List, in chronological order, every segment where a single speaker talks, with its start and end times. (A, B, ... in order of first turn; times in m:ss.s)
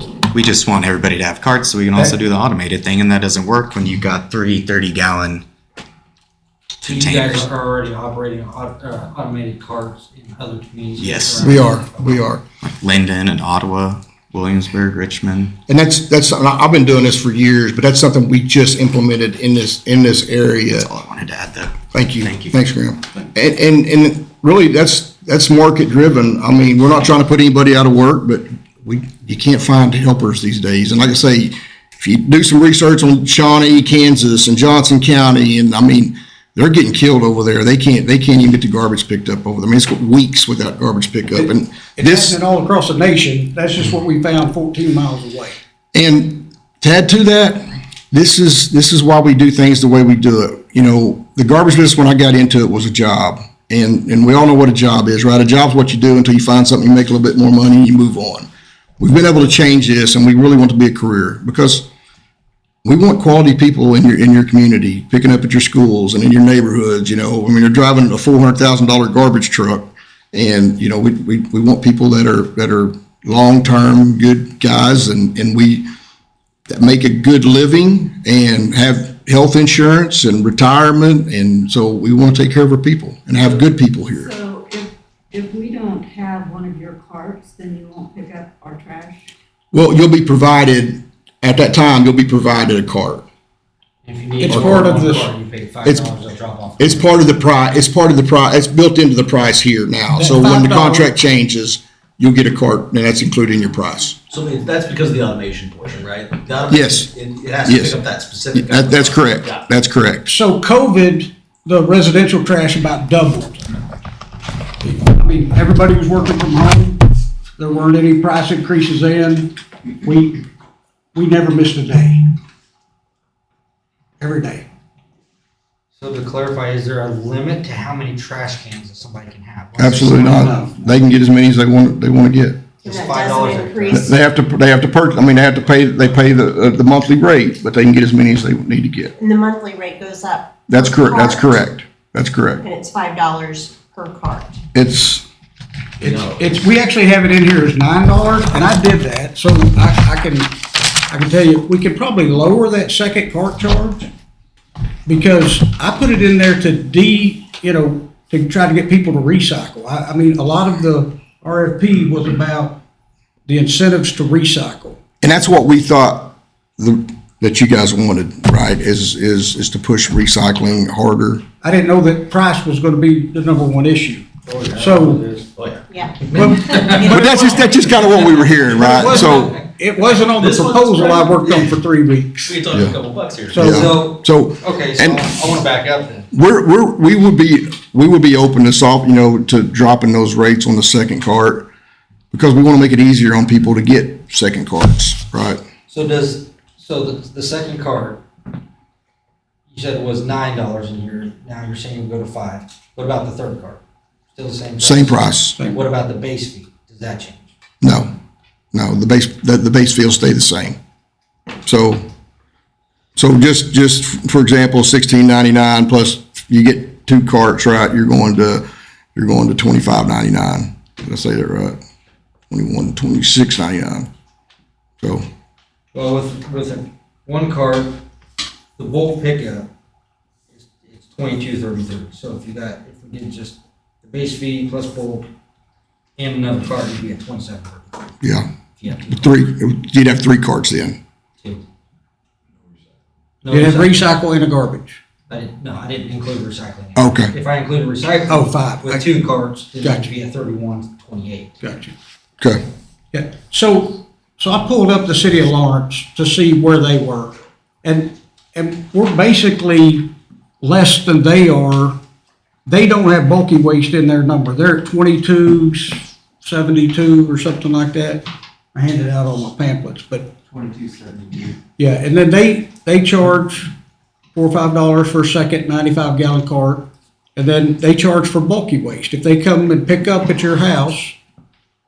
0:00.3-0:05.4 A
0:06.8-0:07.5 A
0:06.8-0:12.2 B
0:11.0-0:11.7 A
0:11.4-0:12.4 C
0:12.6-0:15.6 A
0:15.7-0:20.9 C
0:20.8-0:22.5 A
0:21.9-0:42.4 C
0:42.0-0:45.6 D
0:45.9-0:58.5 C
0:59.0-1:01.9 C
1:02.8-1:15.9 C
1:16.7-1:24.3 C
1:24.2-1:29.3 E
1:29.7-1:33.2 C
1:34.0-1:37.1 B
1:34.4-1:35.3 D
1:35.8-1:36.1 C
1:36.8-1:44.2 C
1:40.1-1:41.2 D
1:44.3-1:49.7 F
1:46.7-1:47.1 C
1:47.6-1:48.0 C
1:48.5-1:50.3 C
1:50.3-1:53.6 D
1:54.8-1:57.0 D
1:57.6-2:00.4 D
2:01.2-2:02.3 D
2:04.2-2:04.7 D
2:06.0-2:10.6 B
2:09.8-2:12.6 C
2:10.1-2:10.8 D
2:12.8-2:14.2 B
2:12.8-2:14.2 G
2:13.9-2:19.1 C
2:19.2-2:21.6 G
2:20.7-2:22.6 C
2:22.6-2:24.6 G
2:24.7-2:25.2 C
2:26.0-2:30.6 D
2:26.0-2:26.4 F
2:31.1-2:34.1 D
2:35.1-2:42.8 D
2:43.5-2:45.0 D
2:45.2-2:51.4 C
2:51.6-2:55.2 D
2:54.5-2:55.5 B
2:55.6-2:55.8 F
2:55.9-2:56.2 G
2:56.2-2:57.3 B
2:56.3-2:57.4 D
2:56.8-2:58.5 G
2:56.8-2:59.6 C
2:58.7-3:02.6 D
3:00.4-3:01.8 F
3:02.4-3:03.7 F
3:02.7-3:03.0 C
3:03.5-3:04.0 D
3:03.6-3:06.3 B
3:03.6-3:05.3 C
3:06.3-3:11.7 C
3:12.3-3:15.6 C
3:15.9-3:18.2 B
3:19.7-3:23.8 B
3:24.3-3:27.4 B
3:24.8-3:25.6 C
3:27.8-3:28.1 C
3:28.7-3:30.8 C
3:31.7-3:32.0 C
3:33.2-3:41.8 C
3:42.5-3:44.1 C
3:45.0-3:45.3 C
3:45.9-3:48.0 B
3:48.8-3:49.7 B
3:50.5-3:55.3 B
3:56.2-3:58.0 B
3:58.2-3:58.5 C
3:58.8-3:59.3 B
3:59.1-4:01.0 C
4:03.4-4:04.1 B
4:03.5-4:05.0 D
4:05.3-4:11.6 B
4:07.0-4:07.3 C
4:08.3-4:09.0 D
4:09.8-4:10.1 D
4:11.6-4:11.9 D
4:13.1-4:22.0 D
4:22.7-4:30.4 D
4:30.5-4:31.6 A
4:31.8-4:33.7 D
4:34.4-4:41.2 D